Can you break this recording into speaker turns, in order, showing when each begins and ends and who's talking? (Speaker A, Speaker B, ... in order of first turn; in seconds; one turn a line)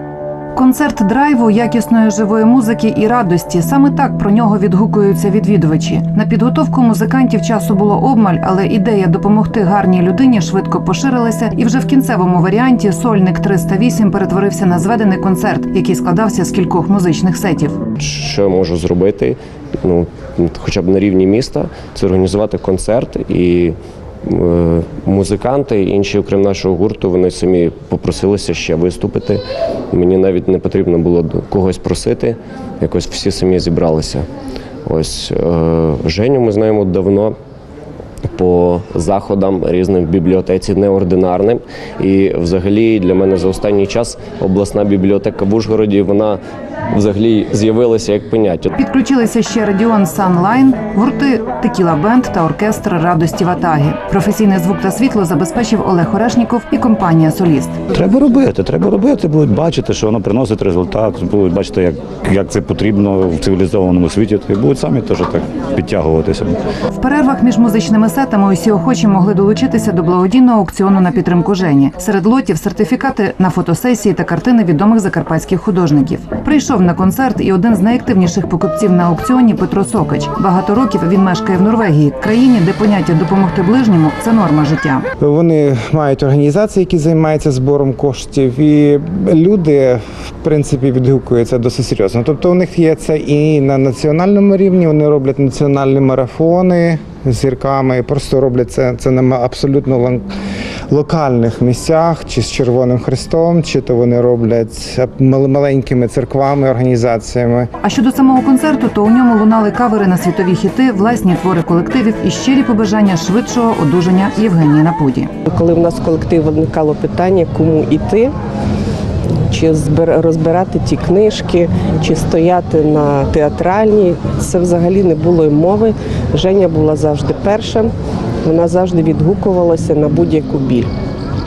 Speaker A: 0.6-17.8
Speaker B: 18.0-29.4
Speaker B: 29.9-34.3
Speaker B: 34.9-37.3
Speaker B: 38.3-46.4
Speaker B: 46.9-48.7
Speaker A: 48.9-57.8
Speaker C: 57.9-66.6
Speaker A: 66.9-85.0
Speaker D: 85.2-100.2
Speaker D: 100.9-107.7
Speaker A: 107.8-115.3
Speaker E: 115.5-118.3
Speaker E: 119.4-127.9
Speaker E: 128.4-130.9